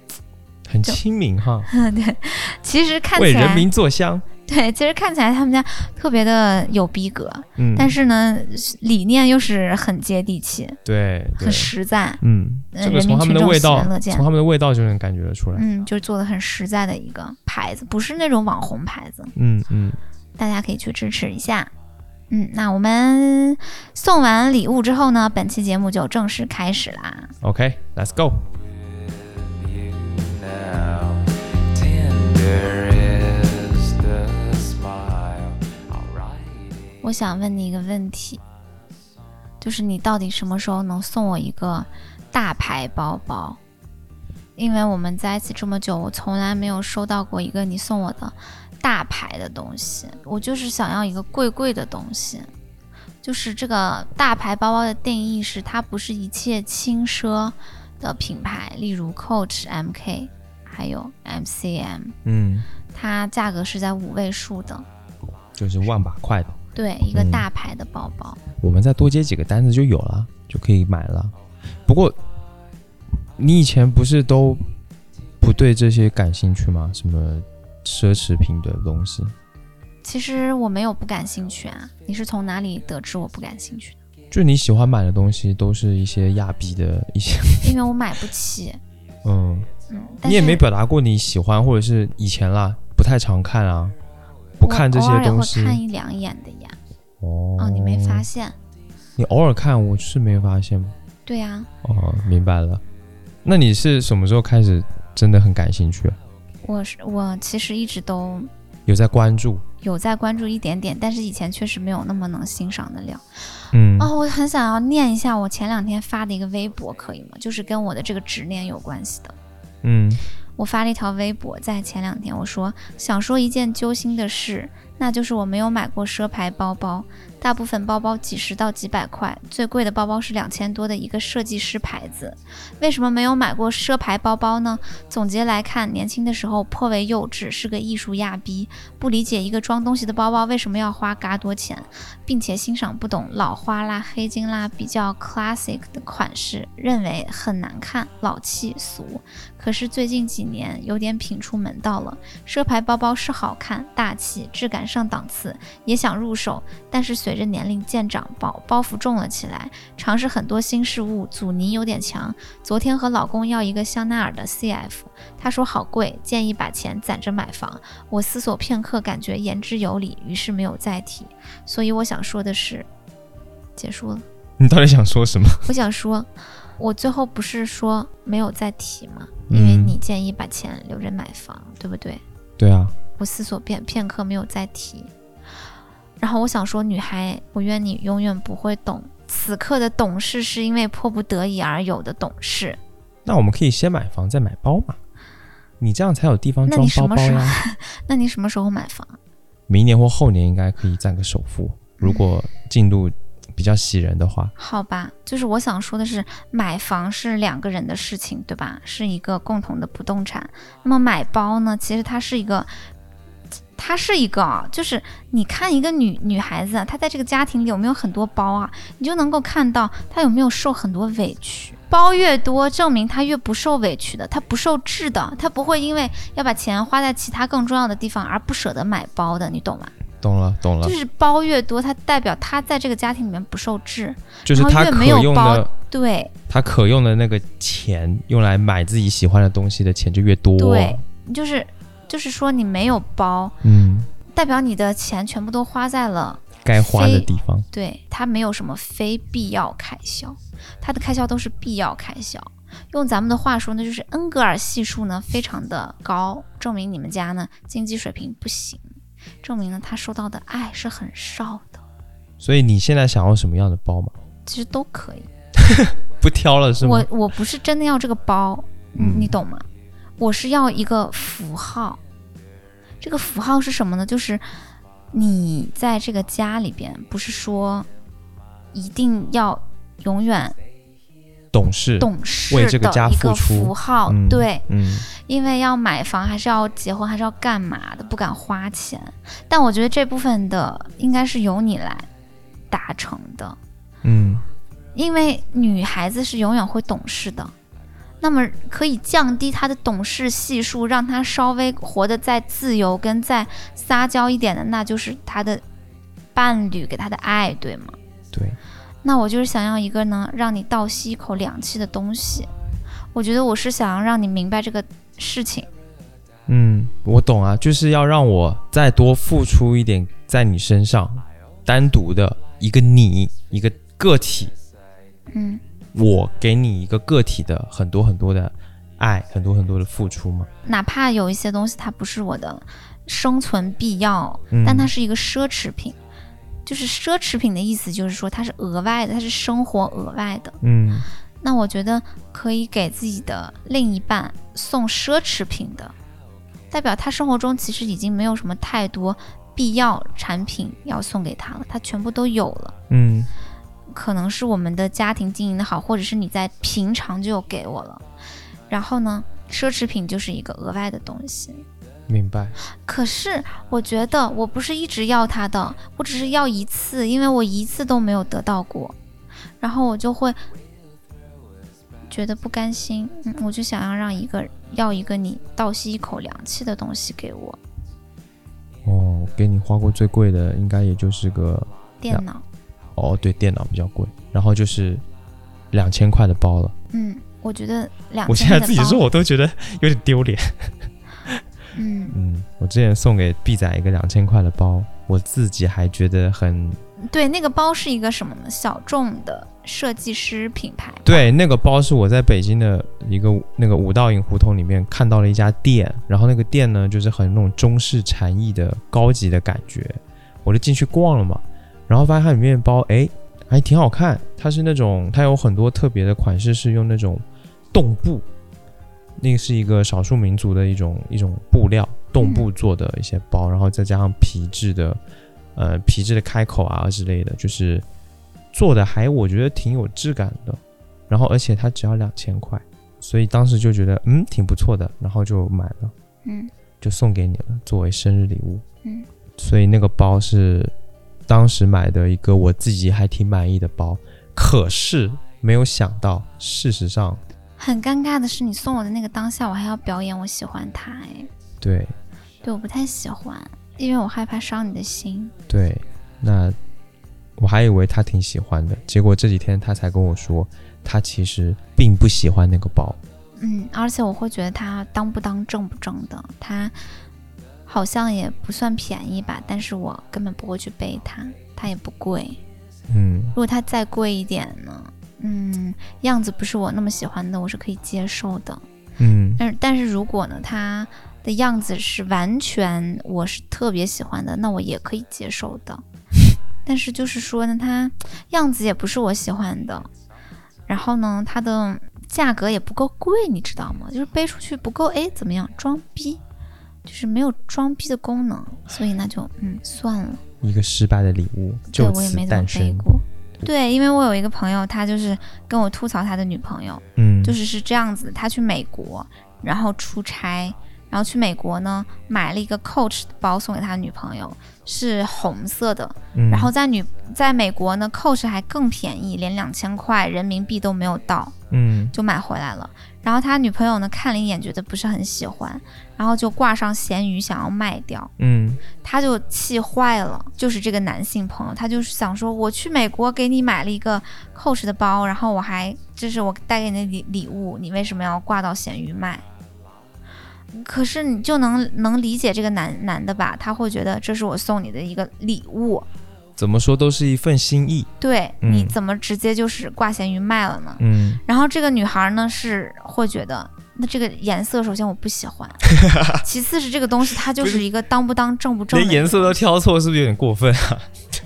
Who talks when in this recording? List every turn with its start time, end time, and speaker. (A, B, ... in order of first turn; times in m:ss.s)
0:00.7-0:01.7 A
0:01.7-0:03.7 B
0:03.2-0:04.2 A
0:04.5-0:10.8 B
0:07.6-0:08.0 A
0:10.8-0:15.6 A
0:11.4-0:12.2 B
0:12.7-0:14.2 B
0:15.5-0:19.3 B
0:19.4-0:20.0 A
0:20.4-0:21.7 B
0:22.3-0:27.3 B
0:27.4-0:28.4 A
0:28.8-0:37.0 C
0:37.0-0:38.4 B
0:39.6-0:43.6 B
0:44.6-0:52.5 B
0:53.2-1:02.2 B
1:02.2-1:02.7 A
1:02.9-1:04.8 B
1:05.6-1:06.6 A
1:06.7-1:08.4 B
1:07.1-1:07.4 A
1:08.6-1:11.3 A
1:11.9-1:12.2 A
1:13.4-1:14.6 A
1:15.4-1:19.3 A
1:20.0-1:24.0 B
1:24.3-1:27.7 A
1:27.6-1:28.8 B
1:29.2-1:29.7 A
1:29.9-1:30.6 B
1:30.2-1:34.0 A
1:34.6-1:35.8 A
1:34.6-1:36.8 B
1:37.2-1:38.3 A
1:37.6-1:38.6 B
1:39.2-1:40.9 A
1:41.2-1:41.7 B
1:41.8-1:42.8 A
1:43.4-1:46.2 A
1:46.6-1:48.5 B
1:48.9-1:49.6 A
1:49.8-1:53.2 B
1:53.7-1:54.1 A
1:54.0-1:59.3 B
1:59.8-2:00.2 A
2:00.6-2:52.9 B
2:53.8-2:54.2 B
2:54.6-2:55.7 A
2:55.6-3:02.2 B
2:59.5-3:00.0 A
3:02.6-3:02.9 A
3:03.2-3:05.1 B
3:06.2-3:12.8 B
3:13.2-3:15.0 A
3:15.8-3:17.6 A
3:16.6-3:19.2 B
3:19.7-3:24.5 A
3:22.0-3:22.2 B
3:24.6-3:32.7 B
3:33.8-3:49.9 B
3:50.2-3:51.0 A
3:50.8-3:56.3 B
3:54.4-3:55.7 A
3:56.5-4:01.0 A
4:00.6-4:03.6 B
4:03.6-4:04.1 A
4:04.3-4:18.8 B
4:06.6-4:07.7 A
4:19.4-4:21.8 B
4:22.4-4:24.1 A
4:24.4-4:25.3 B
4:25.6-4:27.1 A
4:26.8-4:29.6 B
4:29.0-4:29.4 A
4:30.2-4:32.0 B
4:33.0-4:34.5 B
4:35.1-4:37.9 B
4:38.7-4:40.6 B
4:41.5-4:45.0 A
4:42.0-4:52.1 B
4:52.7-4:53.6 B
4:54.0-4:54.4 A
4:54.9-4:57.5 B
4:58.2-5:05.6 B
5:06.3-5:08.0 B
5:08.3-5:08.6 A
5:09.0-5:12.5 B
5:13.1-5:15.7 B
5:16.5-5:24.5 A
5:25.3-5:25.6 B
5:25.9-5:30.5 A
5:30.6-5:36.0 B
5:34.5-5:34.9 A
5:36.6-5:40.6 B
5:40.6-5:41.1 A
5:41.4-5:45.9 B
5:46.7-5:52.7 B
5:52.9-5:53.3 A
5:53.9-5:58.0 B
5:58.7-6:01.6 B
6:02.1-6:02.6 A
6:02.8-6:09.0 B
6:09.6-6:10.4 B
6:12.1-6:17.6 B
6:18.8-6:22.2 A
6:22.0-6:22.4 B
6:23.0-6:25.0 A
6:25.7-6:26.7 A
6:26.9-6:29.0 B
6:28.3-6:31.4 A
6:31.7-6:32.2 B
6:32.1-6:36.8 A
6:37.0-6:41.3 B
6:41.0-6:58.2 A
6:59.2-7:05.0 A
7:02.2-7:02.5 B
7:05.5-7:07.8 A
7:08.5-7:15.9 A
7:16.2-7:16.5 B
7:16.8-7:18.6 A
7:19.4-7:20.7 A
7:21.3-7:27.2 A
7:27.6-7:31.3 B
7:31.6-7:31.9 A
7:32.4-7:35.3 B
7:35.5-7:36.6 A
7:37.4-7:43.0 A
7:43.4-7:46.7 B
7:47.7-7:52.4 B
7:52.9-7:53.4 A
7:53.4-7:58.6 B
7:59.0-7:59.4 A
7:59.4-8:05.8 B
8:06.6-8:09.9 B
8:10.7-8:16.2 B
8:16.8-8:20.2 B
8:20.4-8:22.9 A
8:21.7-8:41.3 B
8:27.0-8:27.4 A
8:36.1-8:36.5 A
8:41.5-8:41.9 A
8:41.9-8:48.1 B
8:48.2-8:48.6 A
8:48.8-8:59.2 B
9:00.5-9:05.9 B
9:06.4-9:07.9 A
9:08.0-9:19.4 B
9:08.4-9:08.7 A
9:10.8-9:11.2 A
9:15.7-9:16.2 A
9:17.4-9:17.6 A
9:18.7-9:21.0 A